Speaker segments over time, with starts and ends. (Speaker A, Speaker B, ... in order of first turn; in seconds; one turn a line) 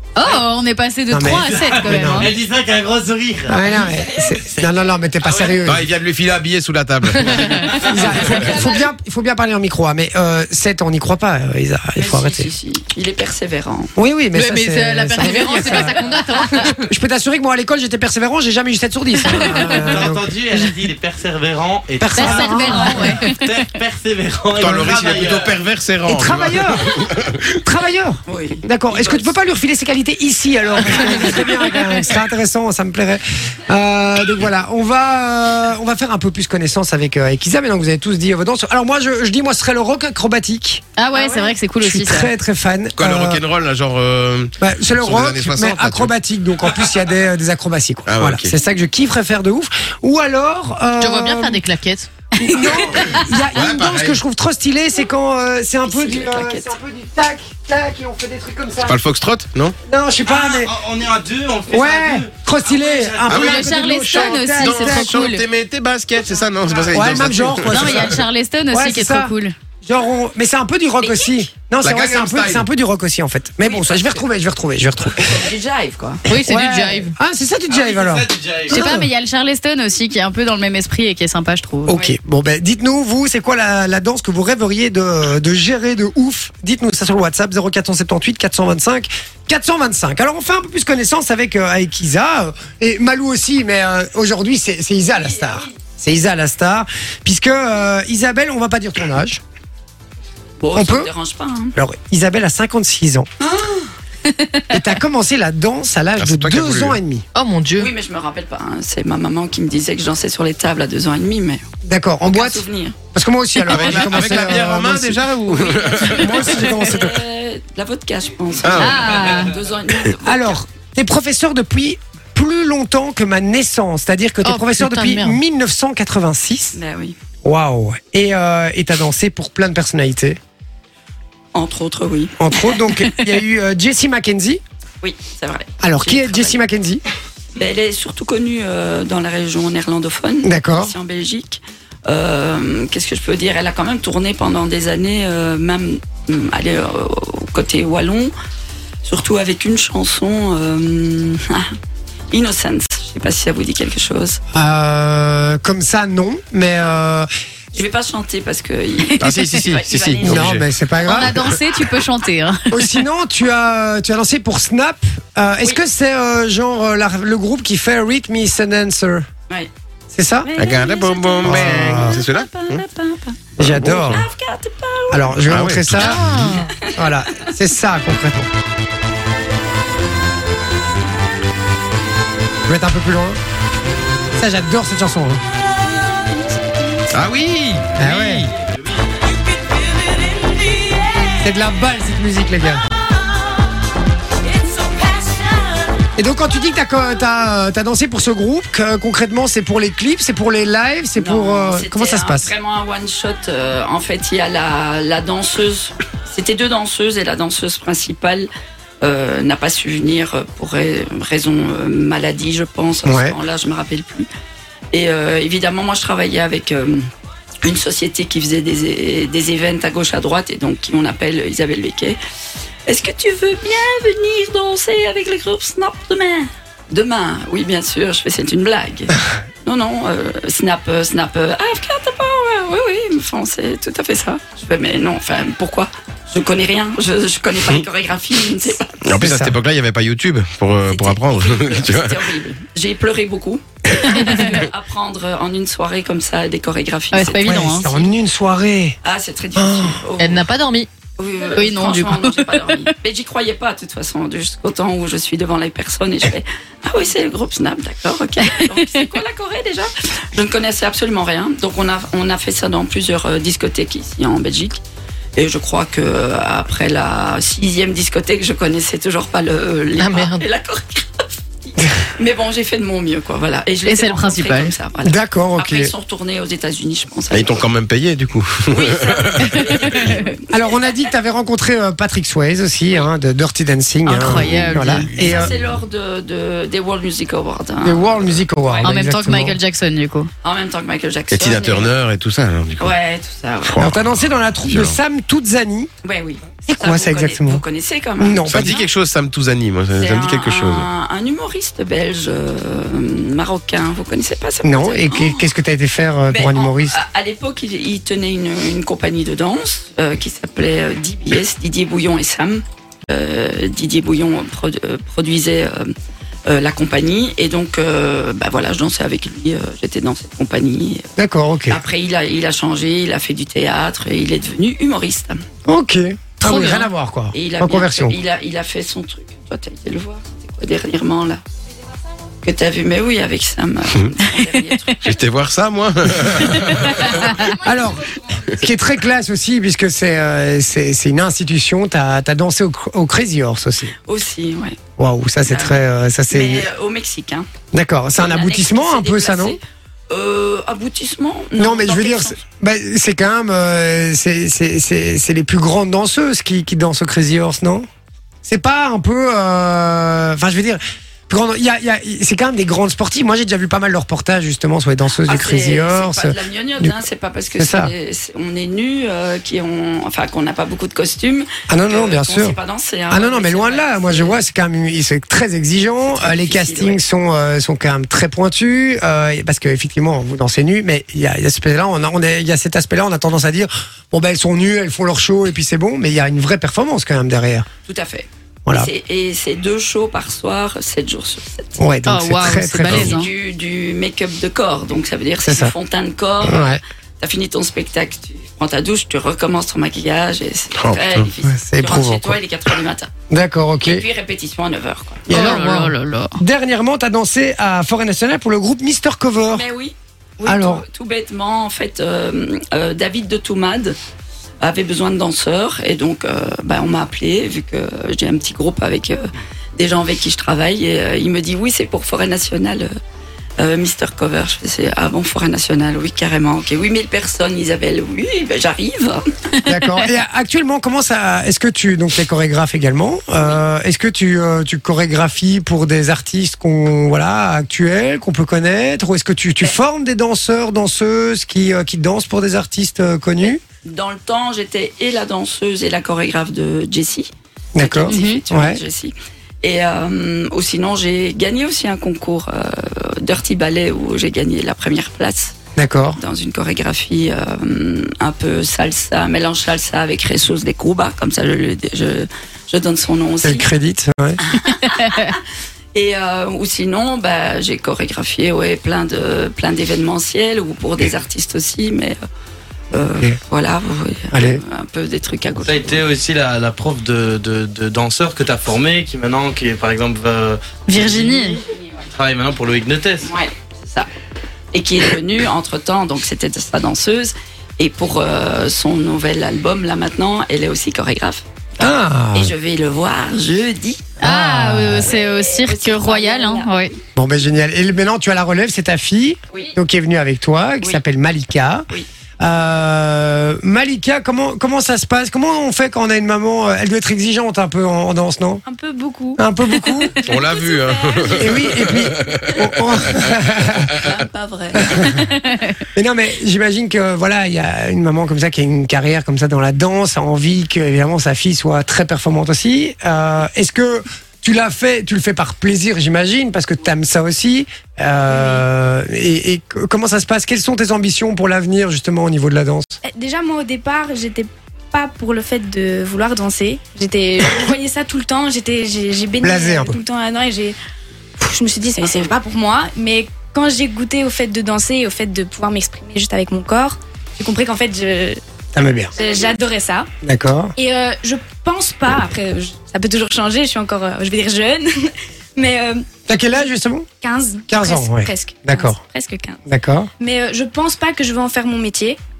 Speaker A: 0.1-2.3
Speaker B: 1.1-2.3
Speaker C: 1.5-3.6
Speaker B: 3.5-5.9
Speaker D: 3.7-4.8
Speaker C: 5.2-5.6
Speaker E: 5.6-7.8
Speaker B: 7.2-12.5
Speaker A: 7.4-7.8
Speaker D: 12.0-13.9
Speaker B: 13.9-20.7
Speaker A: 14.3-16.8
Speaker A: 19.2-19.6
Speaker C: 19.6-25.6
Speaker B: 22.0-23.0
Speaker A: 22.1-23.6
Speaker D: 22.6-23.0
Speaker E: 24.6-27.6
Speaker B: 24.7-25.3
Speaker B: 26.1-27.1
Speaker B: 27.6-43.4
Speaker D: 28.3-29.4
Speaker D: 30.8-31.3
Speaker A: 41.0-42.3
Speaker E: 43.0-46.1
Speaker B: 44.6-51.6
Speaker E: 48.0-48.5
Speaker A: 51.0-53.4
Speaker B: 52.4-59.0
Speaker E: 53.5-54.2
Speaker D: 55.8-56.8
Speaker E: 58.8-59.8
Speaker B: 59.9-60.7
Speaker C: 60.2-63.7
Speaker B: 61.7-65.2
Speaker E: 63.3-63.7
Speaker A: 63.4-65.4
Speaker E: 64.5-68.2
Speaker B: 66.9-68.1
Speaker A: 67.7-69.5
Speaker B: 68.7-75.4
Speaker D: 71.0-71.4
Speaker E: 71.8-72.7
Speaker D: 75.2-76.2
Speaker A: 76.3-77.1
Speaker B: 76.4-79.1
Speaker C: 77.7-78.8
Speaker A: 78.7-81.9
Speaker B: 81.8-99.4
Speaker D: 95.1-95.7
Speaker D: 100.6-101.7
Speaker B: 100.7-101.1
Speaker B: 101.7-103.3
Speaker D: 103.4-103.9
Speaker A: 104.3-104.6
Speaker B: 104.7-107.2
Speaker E: 106.2-107.0
Speaker A: 107.3-107.9
Speaker D: 107.8-111.6
Speaker B: 111.8-115.3
Speaker D: 112.2-112.9
Speaker E: 113.7-116.8
Speaker D: 115.5-120.6
Speaker B: 116.0-117.2
Speaker E: 118.6-119.4
Speaker A: 118.8-119.5
Speaker B: 120.2-126.8
Speaker A: 124.4-125.4
Speaker D: 126.7-127.2
Speaker B: 127.4-130.4
Speaker D: 131.5-133.0
Speaker B: 132.4-134.6
Speaker D: 135.0-136.6
Speaker B: 135.8-137.0
Speaker D: 137.6-148.3
Speaker B: 140.4-140.9
Speaker D: 149.0-151.7
Speaker D: 152.3-154.4
Speaker B: 154.5-157.3
Speaker D: 157.7-160.6
Speaker E: 159.2-160.6
Speaker B: 160.2-161.4
Speaker A: 161.0-163.0
Speaker B: 162.7-169.2
Speaker B: 170.1-170.5
Speaker D: 170.4-173.4
Speaker E: 170.6-172.8
Speaker B: 171.4-172.2
Speaker B: 173.6-174.2
Speaker E: 173.6-174.2
Speaker D: 174.1-175.4
Speaker B: 175.1-178.5
Speaker E: 175.5-176.5
Speaker A: 176.0-176.7
Speaker D: 176.5-177.1
Speaker B: 182.7-183.4
Speaker B: 184.3-185.4
Speaker E: 187.1-188.4
Speaker B: 188.0-188.5
Speaker D: 190.4-191.1
Speaker B: 191.4-192.8
Speaker D: 194.5-195.9
Speaker B: 196.2-202.5
Speaker D: 201.2-208.5
Speaker D: 209.0-214.3
Speaker B: 213.0-213.3
Speaker D: 214.9-217.1
Speaker D: 217.6-222.2
Speaker D: 222.9-238.9
Speaker E: 239.0-242.3
Speaker B: 239.1-239.6
Speaker D: 240.8-248.1
Speaker A: 247.1-247.8
Speaker B: 247.4-248.9
Speaker D: 249.0-250.5
Speaker B: 249.6-250.0
Speaker A: 250.2-250.9
Speaker D: 251.2-264.8
Speaker A: 251.5-252.5
Speaker D: 265.4-277.7
Speaker A: 270.0-270.4
Speaker A: 273.8-274.7
Speaker B: 275.0-275.9
Speaker E: 277.3-279.6
Speaker D: 278.7-280.8
Speaker A: 279.6-280.1
Speaker B: 280.5-285.6
Speaker A: 284.0-285.1
Speaker E: 284.2-285.5
Speaker D: 285.1-288.9
Speaker B: 287.8-289.6
Speaker A: 288.8-290.3
Speaker D: 290.4-291.9
Speaker E: 291.3-292.9
Speaker D: 292.8-293.8
Speaker E: 293.6-295.0
Speaker B: 293.8-295.9
Speaker D: 296.0-298.9
Speaker B: 296.7-297.6
Speaker B: 298.2-298.8
Speaker E: 298.4-300.9
Speaker D: 299.9-305.5
Speaker B: 304.6-306.9
Speaker D: 306.3-315.9
Speaker D: 316.5-321.0
Speaker B: 321.2-321.8
Speaker D: 321.7-325.4
Speaker B: 325.7-328.2
Speaker A: 326.4-326.9
Speaker D: 327.3-331.4
Speaker D: 332.4-335.2
Speaker E: 335.0-337.4
Speaker B: 337.4-343.9
Speaker D: 344.1-344.8
Speaker B: 345.0-346.7
Speaker D: 345.5-347.5
Speaker B: 347.7-349.6
Speaker D: 348.1-352.4
Speaker B: 351.6-357.9
Speaker B: 358.4-367.0
Speaker D: 365.2-374.4
Speaker B: 367.6-367.9
Speaker B: 371.7-372.6
Speaker B: 373.1-387.6
Speaker D: 376.1-377.0
Speaker D: 387.9-391.8
Speaker B: 391.8-393.2
Speaker A: 392.1-393.3
Speaker D: 393.0-403.1
Speaker B: 395.4-395.7
Speaker B: 396.4-396.8
Speaker E: 400.8-401.3
Speaker B: 401.4-402.4
Speaker B: 403.3-404.0
Speaker D: 403.8-405.7
Speaker B: 405.3-409.6
Speaker A: 405.3-406.4
Speaker D: 409.5-413.9
Speaker B: 410.4-410.8
Speaker D: 414.6-419.2
Speaker D: 419.8-422.9
Speaker D: 423.6-429.2
Speaker B: 429.6-443.6
Speaker D: 443.4-455.5
Speaker B: 447.7-448.8
Speaker A: 448.1-448.4
Speaker B: 455.8-456.2
Speaker D: 456.1-463.7
Speaker B: 463.4-464.4
Speaker D: 464.4-465.4
Speaker D: 465.9-472.2
Speaker D: 472.9-476.1
Speaker B: 474.3-474.6
Speaker C: 475.6-483.3
Speaker A: 480.9-481.6
Speaker D: 483.2-484.1
Speaker D: 484.7-494.2
Speaker B: 491.8-492.5
Speaker A: 494.2-496.9
Speaker B: 494.2-495.1
Speaker D: 495.1-497.0
Speaker B: 497.1-501.9
Speaker B: 502.4-508.6
Speaker F: 508.6-511.9
Speaker B: 509.4-510.2
Speaker E: 510.2-513.5
Speaker B: 511.4-513.9
Speaker D: 513.9-515.3
Speaker B: 514.9-515.1
Speaker B: 516.0-533.0
Speaker F: 528.3-528.6
Speaker F: 533.0-540.8
Speaker B: 539.4-540.0
Speaker F: 541.4-548.4
Speaker B: 548.7-549.1
Speaker F: 549.1-550.1
Speaker B: 550.2-550.7
Speaker F: 550.8-556.0
Speaker B: 556.3-557.0
Speaker F: 557.2-559.6
Speaker B: 557.7-559.0
Speaker B: 559.6-560.1
Speaker F: 560.2-562.2